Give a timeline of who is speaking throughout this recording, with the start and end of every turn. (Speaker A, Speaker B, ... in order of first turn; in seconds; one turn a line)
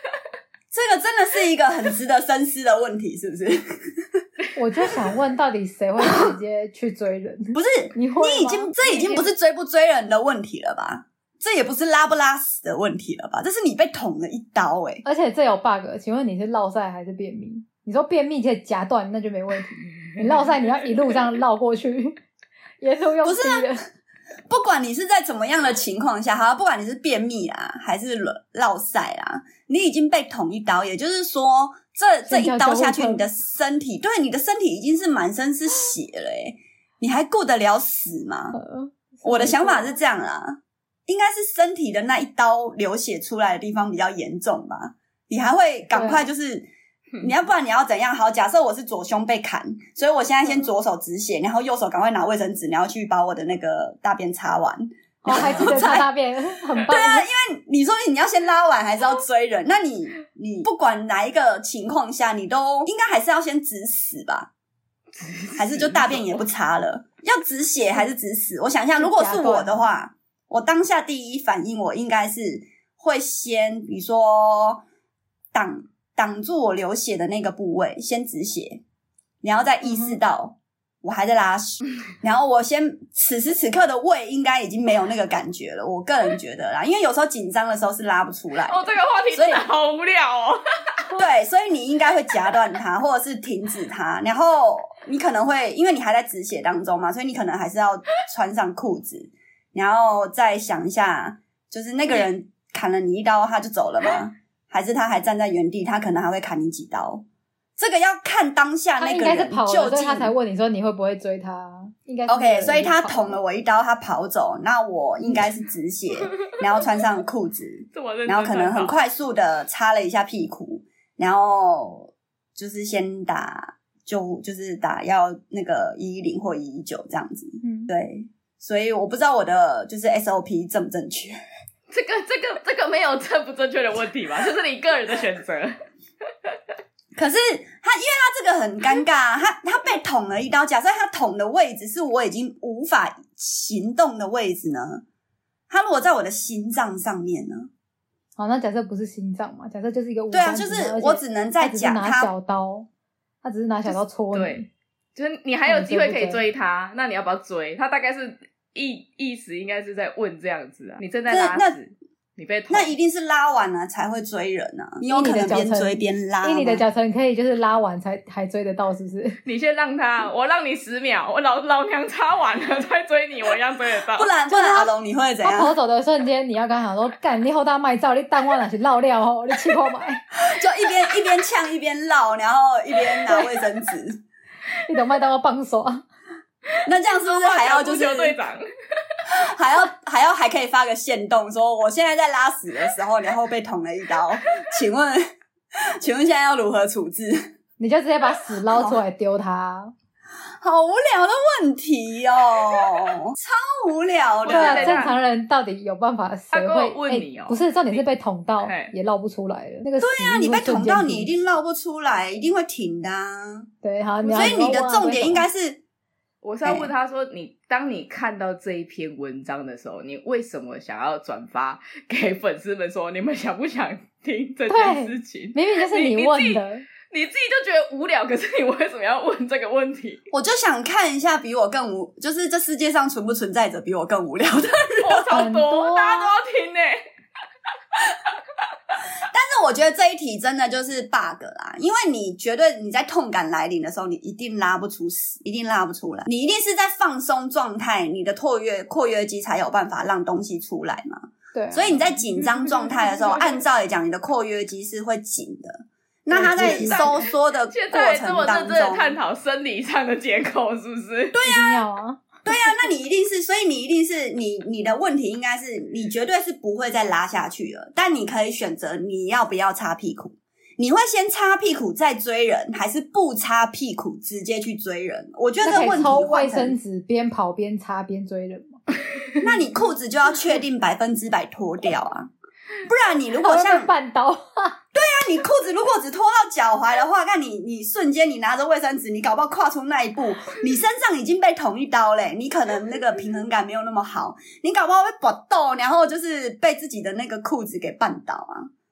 Speaker A: 0.7-4.2
Speaker B: 4.6-9.3
Speaker A: 6.0-6.3
Speaker A: 7.5-15.0
Speaker B: 15.1-22.2
Speaker B: 22.8-23.9
Speaker A: 23.2-23.8
Speaker A: 24.5-38.6
Speaker B: 32.3-33.2
Speaker B: 38.5-40.0
Speaker A: 39.2-46.7
Speaker B: 45.9-46.3
Speaker A: 47.2-56.1
Speaker B: 55.2-57.3
Speaker A: 56.9-64.5
Speaker C: 65.2-66.2
Speaker A: 65.6-74.8
Speaker B: 69.0-69.8
Speaker A: 75.5-78.8
Speaker A: 79.4-89.6
Speaker B: 79.8-80.2
Speaker C: 88.7-91.0
Speaker A: 91.2-107.2
Speaker A: 107.8-110.3
Speaker B: 109.0-113.4
Speaker A: 112.3-131.4
Speaker C: 117.9-119.0
Speaker B: 127.6-127.9
Speaker C: 131.9-135.8
Speaker A: 137.2-145.0
Speaker A: 145.7-147.7
Speaker B: 148.4-152.9
Speaker A: 150.3-152.3
Speaker B: 153.4-154.7
Speaker C: 154.3-162.9
Speaker B: 155.7-156.4
Speaker A: 161.3-161.8
Speaker A: 162.7-166.8
Speaker B: 165.1-169.4
Speaker C: 169.4-174.3
Speaker A: 174.1-175.8
Speaker B: 174.5-174.9
Speaker B: 175.4-180.2
Speaker A: 180.3-184.2
Speaker B: 183.2-183.6
Speaker B: 184.8-186.0
Speaker A: 186.8-188.4
Speaker C: 187.1-189.2
Speaker A: 189.3-195.2
Speaker A: 196.0-197.4
Speaker B: 197.8-199.9
Speaker A: 198.7-199.0
Speaker A: 200.6-205.1
Speaker C: 204.5-205.2
Speaker B: 204.5-211.3
Speaker C: 206.5-208.0
Speaker C: 208.7-208.9
Speaker A: 210.0-213.7
Speaker B: 213.8-215.4
Speaker C: 214.2-214.6
Speaker A: 214.3-215.8
Speaker C: 216.4-230.2
Speaker A: 216.7-216.9
Speaker B: 224.7-226.9
Speaker A: 230.3-235.3
Speaker C: 234.9-237.0
Speaker B: 235.3-236.3
Speaker A: 239.3-259.2
Speaker B: 251.5-252.2
Speaker B: 256.3-257.1
Speaker C: 256.4-261.4
Speaker A: 261.3-261.8
Speaker B: 261.4-262.6
Speaker A: 262.4-276.8
Speaker B: 275.6-278.8
Speaker A: 279.4-282.3
Speaker A: 282.9-283.9
Speaker B: 283.4-284.8
Speaker A: 284.9-298.7